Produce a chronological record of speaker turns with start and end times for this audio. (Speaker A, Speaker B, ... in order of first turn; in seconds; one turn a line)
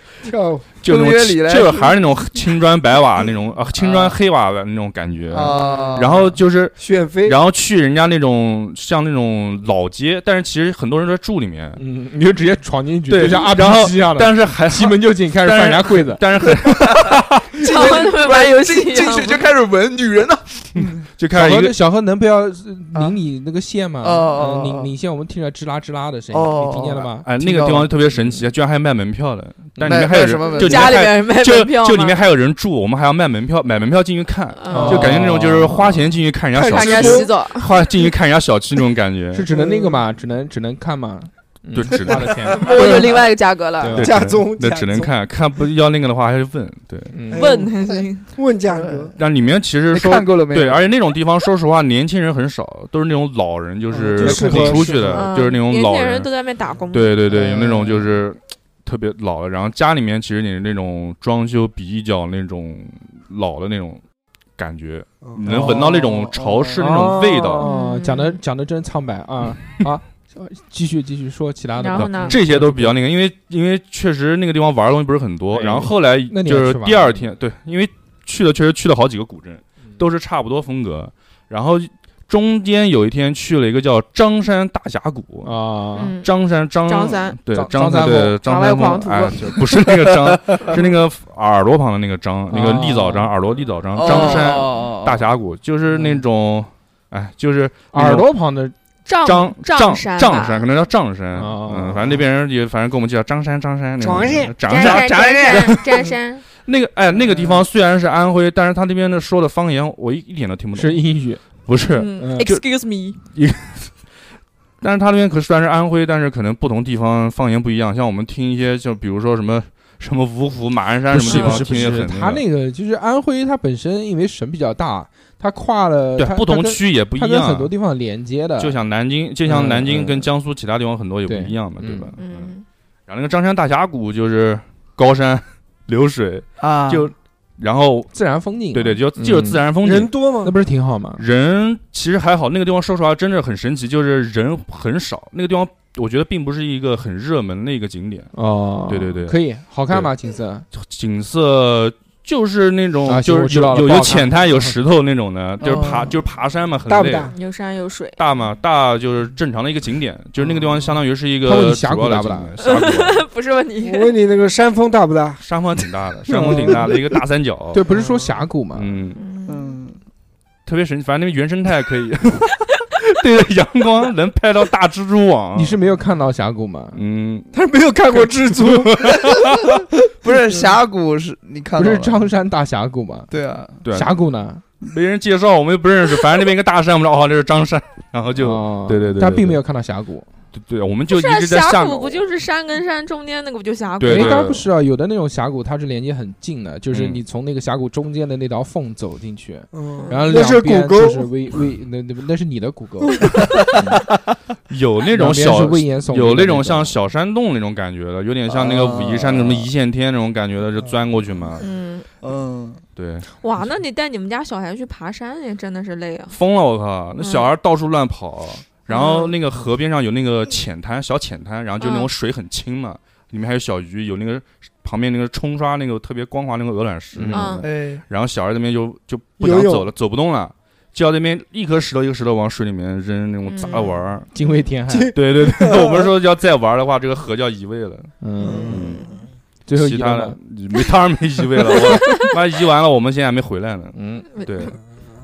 Speaker A: 0.2-0.7
Speaker B: 0.8-11.8
Speaker C: 0.8-1.9
Speaker D: 3.8-4.1
Speaker C: 5.3-6.3
Speaker A: 6.8-7.4
Speaker D: 11.8-16.2
Speaker B: 13.1-17.6
Speaker C: 16.7-21.1
Speaker E: 17.6-19.4
Speaker B: 20.8-21.8
Speaker D: 21.3-28.4
Speaker C: 24.0-24.9
Speaker C: 26.3-27.9
Speaker B: 27.2-39.5
Speaker D: 29.8-30.1
Speaker C: 29.9-31.0
Speaker E: 30.4-32.2
Speaker E: 34.6-35.3
Speaker D: 34.7-35.8
Speaker A: 36.5-37.8
Speaker E: 36.6-37.8
Speaker D: 39.3-42.9
Speaker A: 39.5-40.0
Speaker B: 41.7-42.6
Speaker E: 42.6-44.0
Speaker A: 42.7-43.1
Speaker D: 43.8-44.2
Speaker B: 43.9-47.1
Speaker A: 43.9-45.1
Speaker D: 47.1-47.5
Speaker A: 47.3-49.1
Speaker E: 47.3-48.3
Speaker C: 48.7-49.2
Speaker B: 49.1-56.3
Speaker C: 49.9-50.9
Speaker A: 53.9-55.3
Speaker D: 54.2-55.2
Speaker E: 55.1-57.1
Speaker B: 56.9-64.0
Speaker D: 57.3-58.1
Speaker B: 64.6-67.7
Speaker D: 65.4-65.9
Speaker C: 65.5-66.8
Speaker D: 66.8-73.0
Speaker E: 67.6-68.4
Speaker E: 71.8-72.3
Speaker B: 72.3-85.6
Speaker D: 75.5-77.1
Speaker D: 85.4-86.1
Speaker E: 86.0-86.3
Speaker B: 86.2-98.3
Speaker E: 86.8-87.4
Speaker D: 87.5-88.4
Speaker E: 88.4-89.6
Speaker C: 89.7-90.8
Speaker D: 92.5-93.3
Speaker C: 93.9-95.2
Speaker E: 94.0-94.6
Speaker D: 95.9-96.2
Speaker D: 97.9-98.7
Speaker E: 99.0-100.7
Speaker B: 99.2-105.9
Speaker D: 101.3-102.2
Speaker A: 104.0-104.8
Speaker E: 104.6-106.5
Speaker C: 104.8-105.7
Speaker B: 106.6-111.0
Speaker D: 107.2-107.6
Speaker D: 110.7-111.7
Speaker B: 111.6-112.6
Speaker E: 111.9-113.2
Speaker D: 112.2-112.5
Speaker B: 113.3-113.9
Speaker B: 114.8-122.4
Speaker D: 121.1-128.8
Speaker E: 121.2-121.7
Speaker B: 126.2-127.7
Speaker B: 128.6-132.5
Speaker D: 129.4-130.3
Speaker D: 131.3-132.1
Speaker E: 132.2-132.6
Speaker B: 133.1-138.1
Speaker C: 136.6-137.1
Speaker D: 138.1-139.7
Speaker B: 138.7-140.1
Speaker A: 139.8-140.5
Speaker D: 140.4-141.2
Speaker B: 141.2-148.3
Speaker D: 148.3-150.7
Speaker B: 148.9-150.1
Speaker B: 150.7-157.3
Speaker D: 153.1-154.3
Speaker C: 155.6-156.2
Speaker A: 156.9-157.3
Speaker E: 157.3-158.2
Speaker B: 158.2-163.2
Speaker D: 161.4-162.5
Speaker E: 162.6-164.1
Speaker A: 163.8-165.4
Speaker B: 165.4-167.8
Speaker D: 166.3-166.6
Speaker C: 166.3-166.9
Speaker A: 166.4-166.9
Speaker D: 167.7-168.9
Speaker A: 167.9-168.3
Speaker B: 168.7-169.2
Speaker E: 169.2-169.8
Speaker C: 169.5-170.0
Speaker B: 170.7-175.8
Speaker D: 175.5-177.0
Speaker B: 176.9-177.5
Speaker A: 177.5-179.6
Speaker B: 178.1-179.8
Speaker C: 180.2-182.2
Speaker D: 181.8-183.3
Speaker C: 183.3-183.8
Speaker B: 183.8-184.2
Speaker D: 183.9-184.6
Speaker B: 184.8-189.6
Speaker D: 188.4-190.3
Speaker B: 190.5-192.2
Speaker E: 191.1-194.4
Speaker B: 194.0-194.7
Speaker D: 194.1-204.0
Speaker B: 196.9-197.2
Speaker A: 199.7-201.3
Speaker E: 200.0-200.3
Speaker A: 203.0-203.4
Speaker B: 204.7-211.6
Speaker D: 205.1-206.9
Speaker C: 208.5-209.7
Speaker E: 211.6-212.1
Speaker C: 212.2-212.8
Speaker B: 212.9-213.3
Speaker E: 213.4-216.3
Speaker B: 216.3-234.3
Speaker E: 217.2-217.5
Speaker E: 218.9-219.3
Speaker E: 221.8-222.1
Speaker D: 227.2-227.5
Speaker E: 227.3-227.7
Speaker C: 227.6-228.0
Speaker A: 229.4-229.9
Speaker E: 233.5-234.0
Speaker D: 234.3-235.1
Speaker A: 234.9-236.1
Speaker B: 235.1-239.1
Speaker D: 238.2-238.8
Speaker A: 238.4-239.0
Speaker D: 239.7-240.4
Speaker B: 239.7-244.8
Speaker E: 241.9-242.3
Speaker D: 243.9-244.3
Speaker E: 244.3-244.7